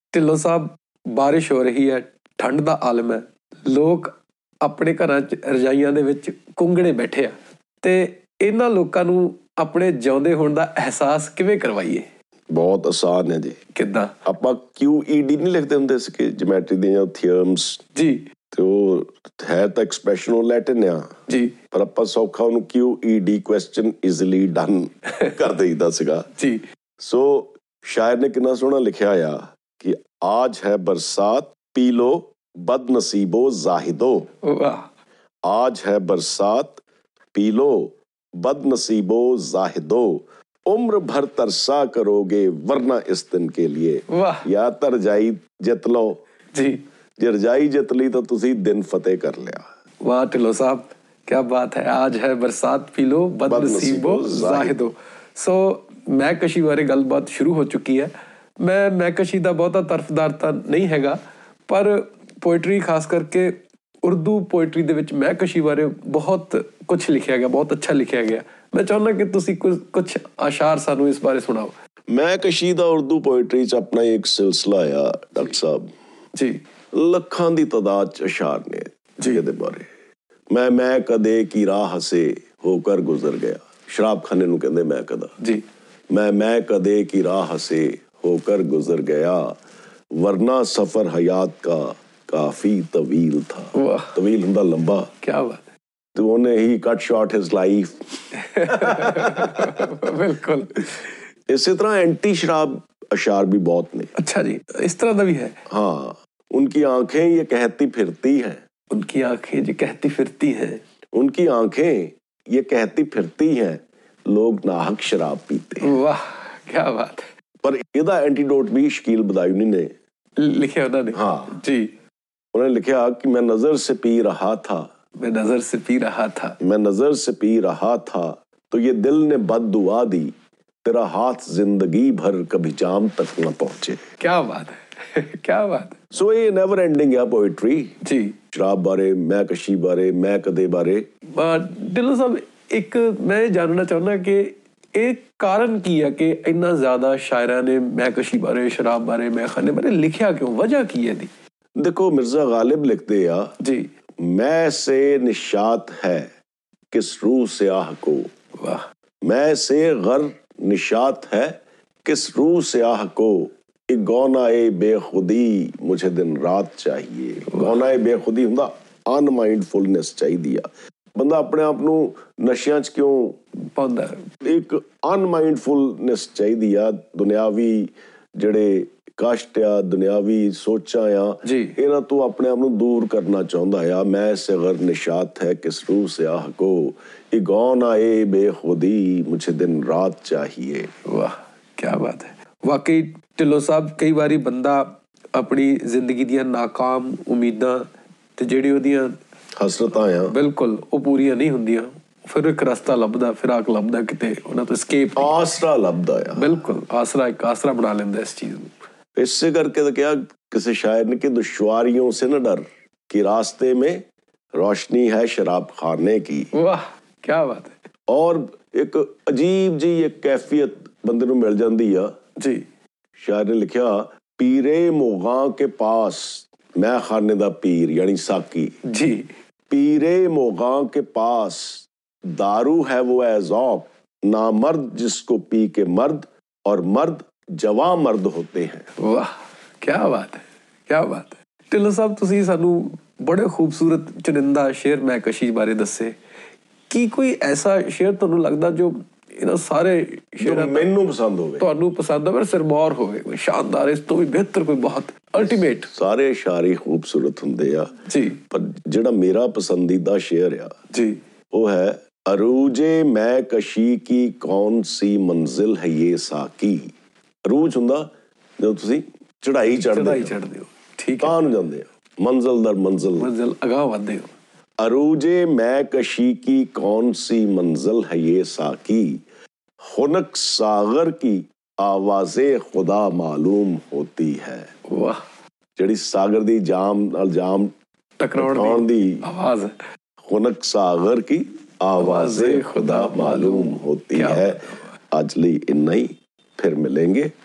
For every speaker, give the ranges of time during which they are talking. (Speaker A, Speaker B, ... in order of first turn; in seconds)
Speaker A: 0.1-12.1, 13.7-14.1, 17.9-18.3, 21.3-21.6, 26.4-26.6, 34.4-34.9, 44.1-44.5, 46.5-46.8, 50.0-71.7, 76.3-76.6, 93.7-94.1, 95.2-95.6, 98.3-101.2, 104.2-105.6, 108.9-110.8, 115.8-117.3, 120.4-121.9, 125.2-126.6, 134.2-136.0, 138.0-138.4, 141.3-151.3, 153.6-153.9, 158.6-158.9, 167.5-167.8, 173.6-174.3, 181.4-181.8, 191.1-199.2, 200.3-205.3, 206.4-208.8, 216.5-217.8, 222.4-222.6, 228.9-229.3, 239.0-246.2, 246.9-250.9, 251.6-255.9, 258.1-258.4, 260.9-261.2, 269.8-271.4, 273.2-274.3, 284.9-285.2, 288.2-289.8, 292.0-295.0
Speaker B: 12.5-13.6, 14.3-17.8, 18.5-21.1, 21.7-26.3, 27.0-34.3, 35.5-36.8, 37.3-46.2, 47.2-49.7, 53.5-54.8, 72.1-75.9, 76.9-79.9, 80.5-85.4, 86.1-89.6, 90.1-95.1, 96.2-99.6, 101.5-104.1, 105.7-108.6, 111.1-115.9, 117.6-119.9, 121.1-121.6, 122.5-124.9, 126.6-134.0, 136.1-137.9, 138.5-141.1, 151.8-153.5, 154.2-156.3, 156.9-158.3, 159.2-173.4, 174.4-190.9, 199.6-200.3, 205.2-206.6, 209.2-214.0, 214.6-216.5, 218.1-222.1, 223.2-228.8, 229.7-238.9, 250.4-251.7, 255.4-257.9, 258.5-260.7, 261.5-266.9, 267.5-270.4, 271.2-273.3, 274.8-279.2, 279.9-284.7, 285.8-287.7, 288.4-289.2, 290.3-297.3